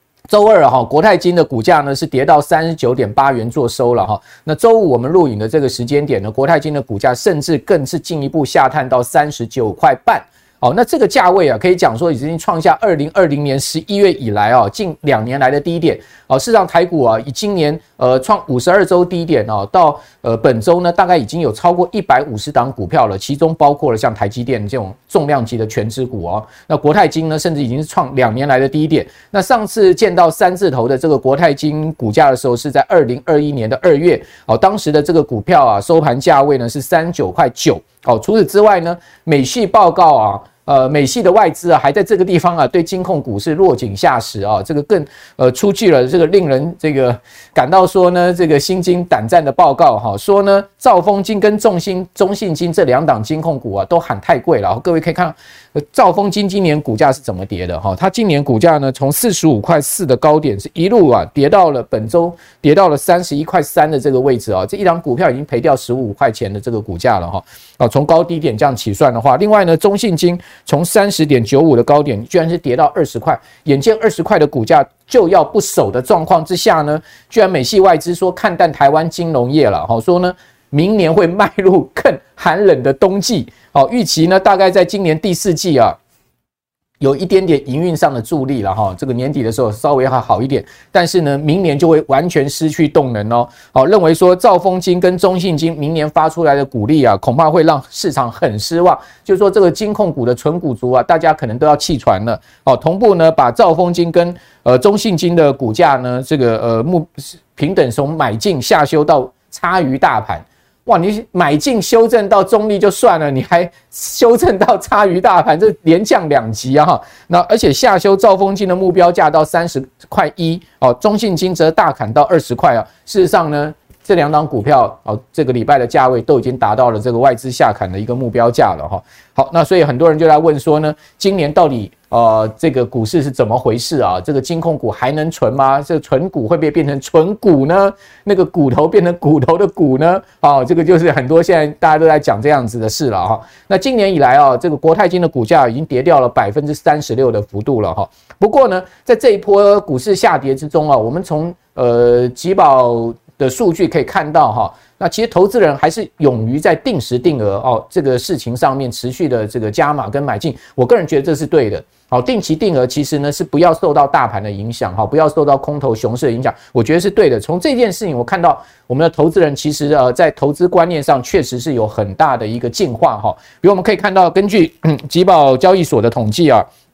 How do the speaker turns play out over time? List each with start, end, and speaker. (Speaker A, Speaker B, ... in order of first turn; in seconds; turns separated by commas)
Speaker A: 0.3-86.0, Speaker A: 87.0-176.7